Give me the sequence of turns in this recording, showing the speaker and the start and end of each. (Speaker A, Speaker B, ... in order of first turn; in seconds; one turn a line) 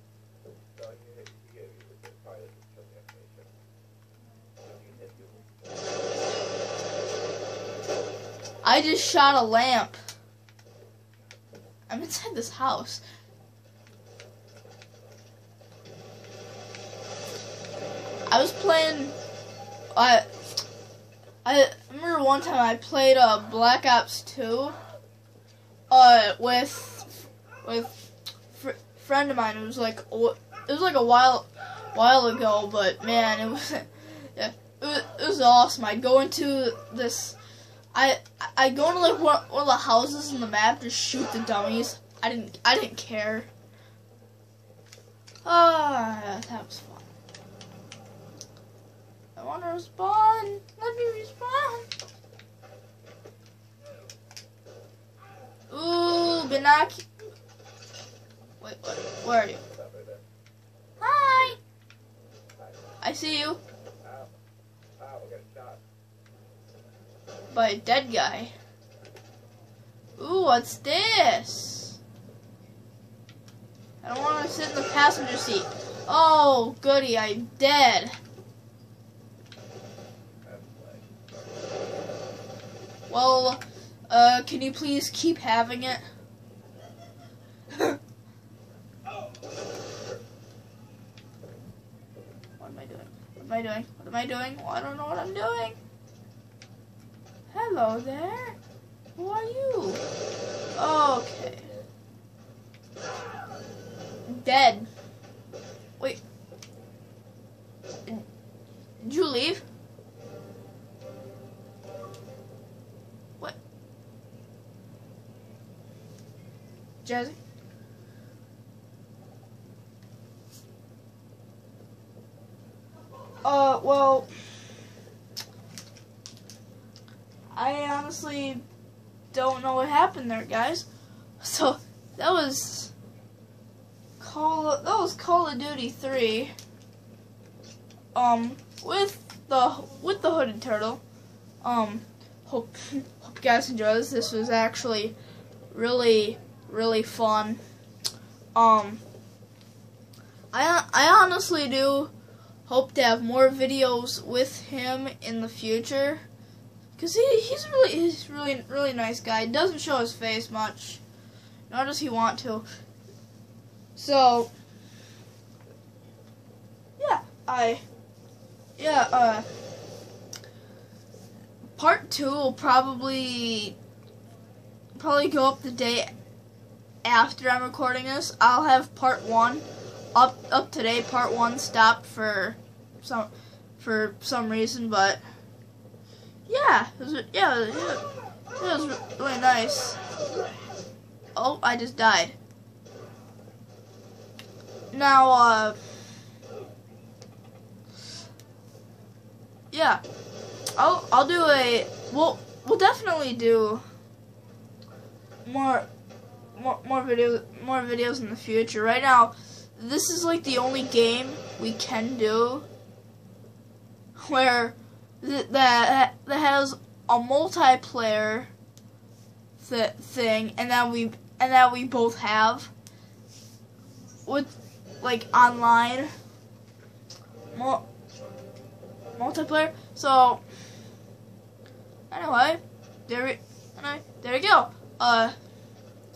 Speaker A: 0.7-3.5
Speaker A: 4.6-5.6
Speaker B: 8.6-10.0
Speaker B: 11.9-13.0
Speaker B: 18.3-19.1
Speaker B: 19.9-20.2
Speaker B: 21.4-24.8
Speaker B: 25.9-37.4
Speaker B: 37.9-43.5
Speaker B: 45.4-47.1
Speaker B: 49.4-51.9
Speaker B: 55.7-57.0
Speaker B: 58.6-59.6
Speaker A: 59.6-60.2
Speaker B: 61.0-61.6
Speaker A: 62.6-62.9
Speaker B: 63.0-63.6
Speaker A: 64.0-64.3
Speaker A: 65.0-65.8
Speaker B: 67.5-68.5
Speaker B: 70.2-72.0
Speaker B: 74.0-78.2
Speaker A: 80.4-81.1
Speaker B: 83.1-86.0
Speaker B: 87.7-88.0
Speaker B: 92.6-95.8
Speaker B: 97.5-98.5
Speaker B: 99.2-100.0
Speaker B: 100.8-101.7
Speaker A: 101.4-101.9
Speaker B: 104.3-104.9
Speaker B: 109.0-109.6
Speaker B: 117.0-117.4
Speaker B: 123.4-124.3
Speaker B: 127.5-128.6
Speaker B: 129.3-130.9
Speaker B: 131.4-132.9
Speaker B: 134.2-136.5
Speaker B: 138.1-141.0
Speaker B: 141.6-145.2
Speaker B: 145.7-147.6
Speaker B: 148.5-149.0
Speaker B: 150.5-152.1
Speaker B: 152.7-156.2
Speaker B: 157.0-161.0
Speaker B: 161.7-162.6
Speaker B: 163.9-164.5
Speaker B: 167.0-167.8
Speaker B: 168.8-169.4
Speaker B: 171.8-173.8
Speaker B: 174.9-176.1
Speaker B: 177.0-185.2
Speaker B: 186.5-188.0
Speaker B: 188.6-190.0
Speaker B: 191.3-192.3
Speaker B: 194.9-195.8
Speaker B: 199.7-200.0
Speaker B: 200.8-203.8
Speaker B: 205.4-205.9
Speaker B: 206.5-212.7
Speaker B: 214.2-218.5
Speaker B: 219.6-222.7
Speaker B: 224.2-226.1
Speaker B: 227.5-227.8
Speaker B: 229.2-230.4
Speaker B: 232.1-235.3